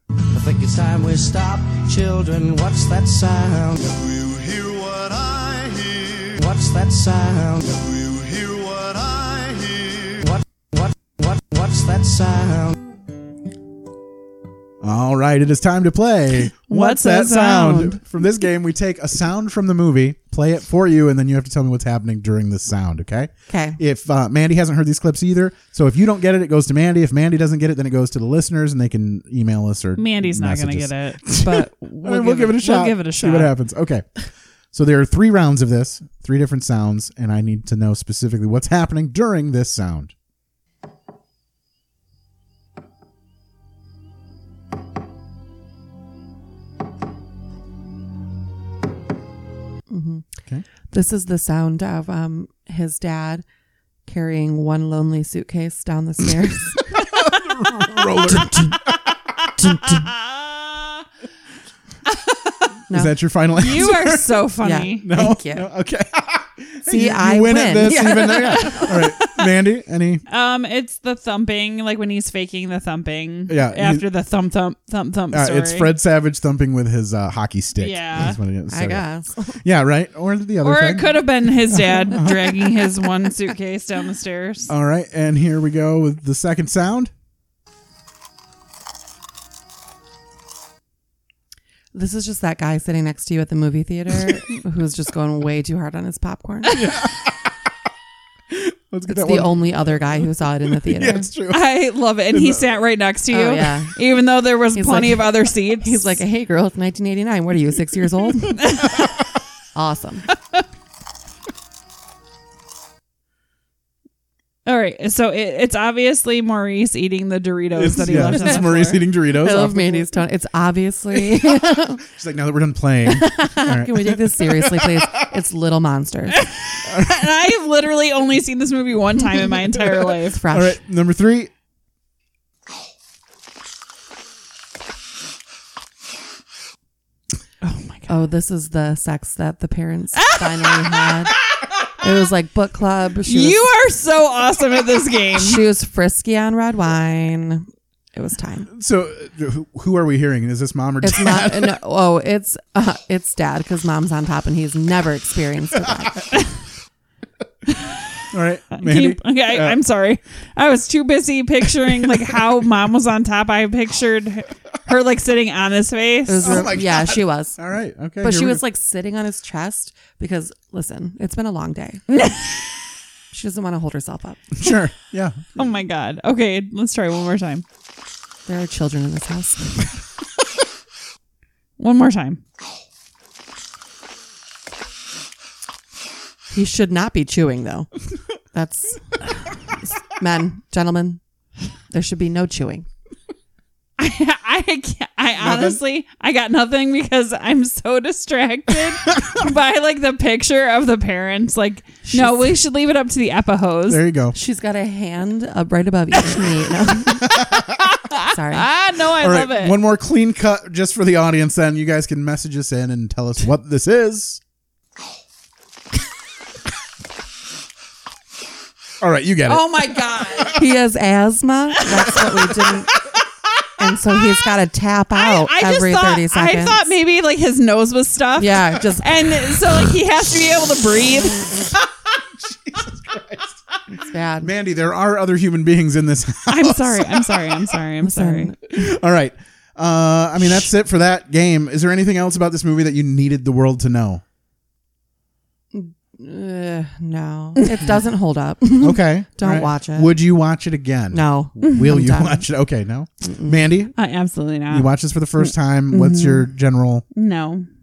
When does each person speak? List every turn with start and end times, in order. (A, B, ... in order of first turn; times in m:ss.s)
0:00.3-0:12.8 A
0:14.8-0:40.1 B
0:16.7-0:18.0 C
0:23.5-0:23.8 D
0:30.0-0:33.5 C
0:49.9-0:50.2 D
0:50.9-0:53.4 D
0:54.1-0:56.8 D
0:56.9-0:59.1 B
0:59.7-1:01.0 C
1:02.1-1:02.7 C
1:02.9-1:04.4 B
1:03.5-1:05.1 C
1:04.6-1:05.7 D
1:05.0-1:10.2 B
1:06.9-1:08.9 D
1:08.1-1:09.4 C
1:10.3-1:15.9 C
1:13.5-1:14.1 B
1:15.3-1:19.1 B
1:17.8-1:18.4 C
1:18.7-1:19.6 D
1:19.6-1:22.8 B
1:20.6-1:24.7 C
1:24.7-1:27.1 B
1:31.9-1:36.9 D
1:36.7-1:37.6 B
1:38.5-1:41.7 B
1:39.1-1:41.3 D
1:41.5-1:46.2 C
1:42.3-1:42.7 B
1:43.3-1:43.9 D
1:44.8-1:48.9 D
1:48.6-1:49.1 C
1:49.8-1:50.3 D
1:54.7-1:59.0 C
1:57.8-2:00.1 B
1:59.4-2:02.0 D
2:01.1-2:05.1 B
2:03.1-2:06.5 D
2:06.3-2:10.4 C
2:06.8-2:07.3 B
2:10.3-2:10.8 D
2:10.5-2:11.5 B
2:17.6-2:18.1 C
2:18.1-2:21.3 D
2:20.2-2:21.4 C
2:22.0-2:23.7 D
2:23.2-2:25.6 C
2:25.4-2:28.7 D
2:28.7-2:31.8 B
2:31.0-2:36.3 D
2:37.7-2:38.2 C
2:38.3-2:39.8 B
2:38.7-2:46.7 C
2:46.3-2:47.6 D
2:46.4-2:48.6 B
2:48.2-2:52.1 D
2:52.1-2:52.5 C
2:53.3-2:54.6 D
2:54.6-2:55.5 B
2:55.6-2:57.6 C
2:58.5-2:59.8 D
3:01.8-3:02.4 C
3:06.5-3:07.9 D
3:08.5-3:09.2 D
3:10.0-3:11.2 D
3:11.9-3:12.9 D
3:14.0-3:24.0 C
3:15.4-3:15.8 B
3:22.1-3:22.6 D
3:23.9-3:24.4 B
3:24.3-3:27.4 D
3:27.3-3:27.8 B
3:27.9-3:29.8 C
3:28.3-3:28.7 D
3:29.2-3:34.4 B
3:39.0-3:39.8 B
3:39.5-3:40.7 C
3:40.5-3:43.0 D
3:41.9-3:42.7 C
3:43.8-3:46.9 D
3:45.2-3:51.8 C
3:48.4-3:49.1 D
3:52.4-3:53.6 B
3:54.0-3:54.5 D
3:54.4-3:57.8 B
3:56.5-3:58.6 C
3:58.0-3:58.9 D
3:58.7-4:04.2 B
4:05.7-4:10.1 D
4:08.8-4:14.0 B
4:11.1-4:12.5 D
4:13.2-4:13.6 D
4:14.0-4:16.5 C
4:14.7-4:17.1 B
4:17.1-4:17.7 C